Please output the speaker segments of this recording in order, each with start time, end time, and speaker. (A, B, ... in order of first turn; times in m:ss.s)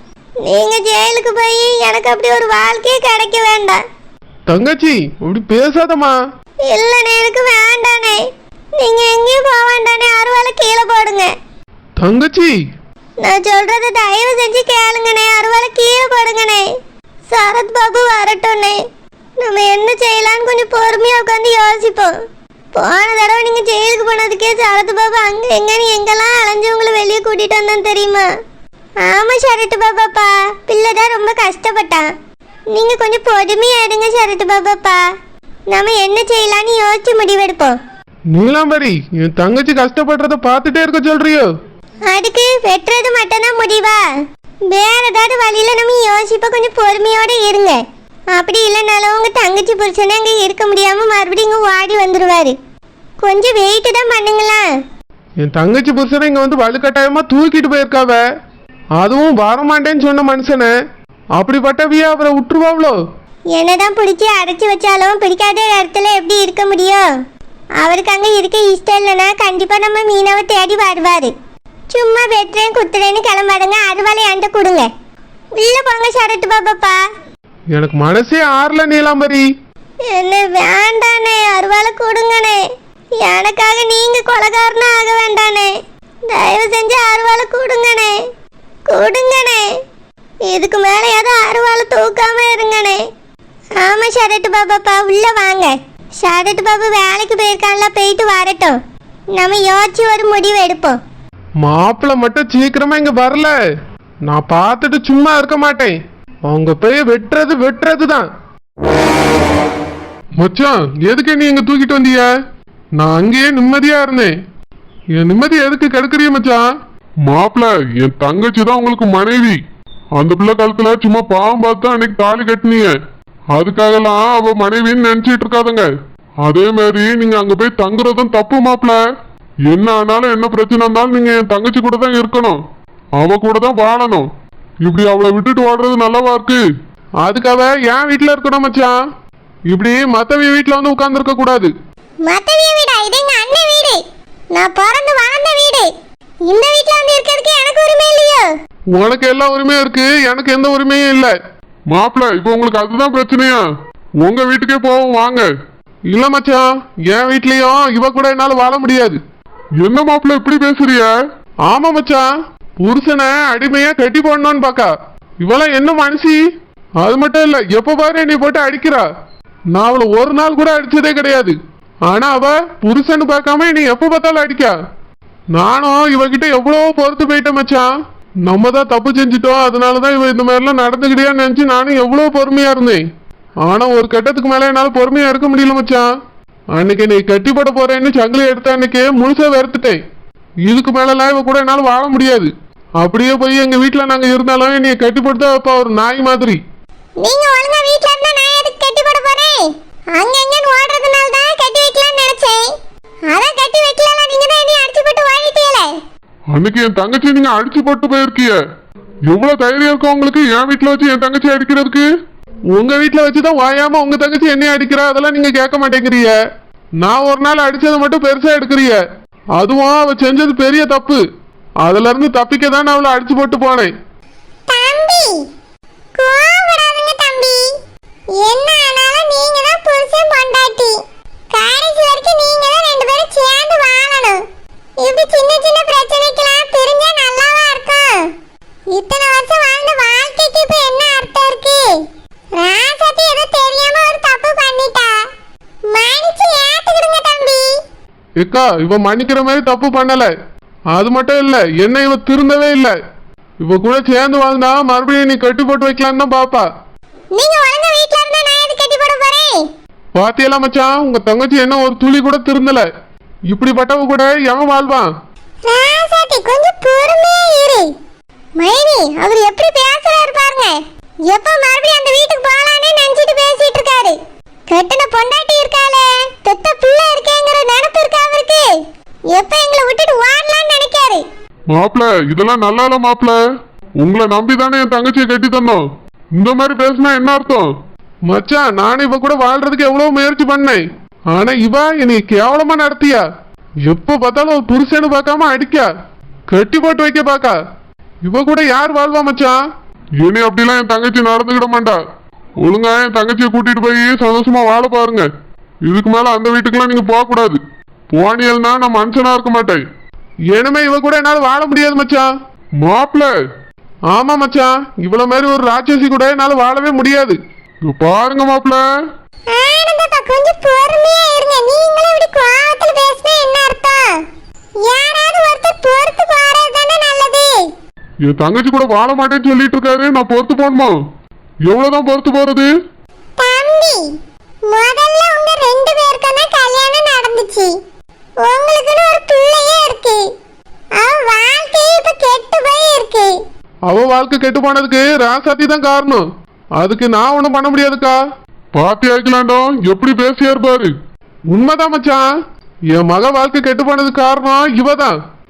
0:00.4-0:03.8 A
0:04.5-0:06.1 B
0:06.7-0:08.2 A
0:08.8-0:11.3 A
0:12.0-0:12.6 B
0:13.2-0:16.6 A
0:17.3-0:18.8 A
0:19.4-0:22.1 A
0:22.7-0:28.2 A
0:29.0-0:32.1 A
0:32.7-0:35.0 A
0:35.7-0:37.8 A
0:38.3-0:41.5 B
0:42.1-0:44.0 A
0:44.7-0:47.8 A
0:48.3-0:52.6 A
0:53.2-0:54.6 A
0:55.4-0:58.2 B
0:59.0-1:00.7 B
1:01.4-1:03.0 B
1:03.6-1:07.0 A
1:07.8-1:11.3 A
1:11.9-1:14.9 A
1:15.6-1:17.0 A
1:17.7-1:19.4 B
1:20.1-1:22.6 A
1:23.2-1:25.7 A
1:26.3-1:28.1 A
1:28.9-1:29.6 A
1:30.5-1:33.0 A
1:33.8-1:38.8 A
1:39.3-1:41.0 A
1:41.6-1:43.5 B
1:44.3-1:48.3 B
1:50.4-1:52.3 B
1:53.0-1:54.3 B
1:55.2-1:56.6 B
1:57.3-1:59.6 C
2:00.2-2:03.0 C
2:03.5-2:05.9 C
2:06.4-2:09.0 C
2:09.7-2:12.6 C
2:13.2-2:14.3 C
2:14.8-2:16.6 C
2:17.2-2:19.0 B
2:19.7-2:21.7 B
2:22.2-2:24.0 A
2:24.5-2:25.9 A
2:26.4-2:28.5 A
2:29.0-2:31.3 B
2:31.9-2:33.6 C
2:34.2-2:35.5 C
2:36.1-2:39.2 B
2:39.8-2:41.1 C
2:41.7-2:42.2 B
2:42.8-2:44.9 B
2:45.4-2:46.4 B
2:47.0-2:49.0 B
2:49.7-2:51.6 B
2:52.1-2:54.7 B
2:55.5-2:57.9 B
2:58.4-3:03.0 B
3:03.6-3:06.1 B
3:06.7-3:10.0 B
3:10.6-3:16.6 B
3:17.2-3:22.7 A
3:23.3-3:25.9 A
3:26.5-3:28.6 C
3:29.3-3:32.1 C
3:32.7-3:36.3 B
3:37.0-3:39.0 B
3:39.6-3:41.2 B
3:41.8-3:43.9 B
3:44.7-3:45.4 A
3:46.2-3:47.7 A
3:48.4-3:51.0 A
3:51.5-3:54.4 A
3:55.0-3:58.3 A
3:58.9-4:02.0 A
4:02.5-4:05.1 A
4:05.9-4:07.7 A
4:08.4-4:10.3 B
4:10.9-4:13.0 B
4:13.6-4:16.6 B
4:17.3-4:19.6 A
4:20.1-4:22.9 B
4:23.5-4:25.1 B
4:25.6-4:27.9 A
4:28.6-4:34.2 A
4:34.7-4:38.7 A
4:39.3-4:41.2 A
4:41.7-4:43.4 C
4:44.0-4:45.8 C
4:46.4-4:47.7 C
4:48.3-4:53.2 B
4:53.8-4:55.9 B
4:56.5-4:57.6 B
4:58.2-4:59.6 B
5:00.2-5:02.0 C
5:02.6-5:05.3 C
5:05.8-5:07.6 C
5:08.1-5:09.8 C
5:10.5-5:12.3 B
5:12.8-5:13.3 C
5:14.1-5:17.4 B
5:17.9-5:18.8 C
5:19.5-5:24.1 A
5:24.8-5:27.7 A
5:28.2-5:30.9 C
5:31.6-5:32.7 C
5:33.4-5:34.1 A
5:34.7-5:37.7 A
5:38.4-5:40.2 A
5:41.0-5:43.3 A
5:43.9-5:46.2 B
5:46.8-5:48.2 B
5:48.7-5:50.9 C
5:51.5-5:52.2 B
5:52.9-5:55.2 B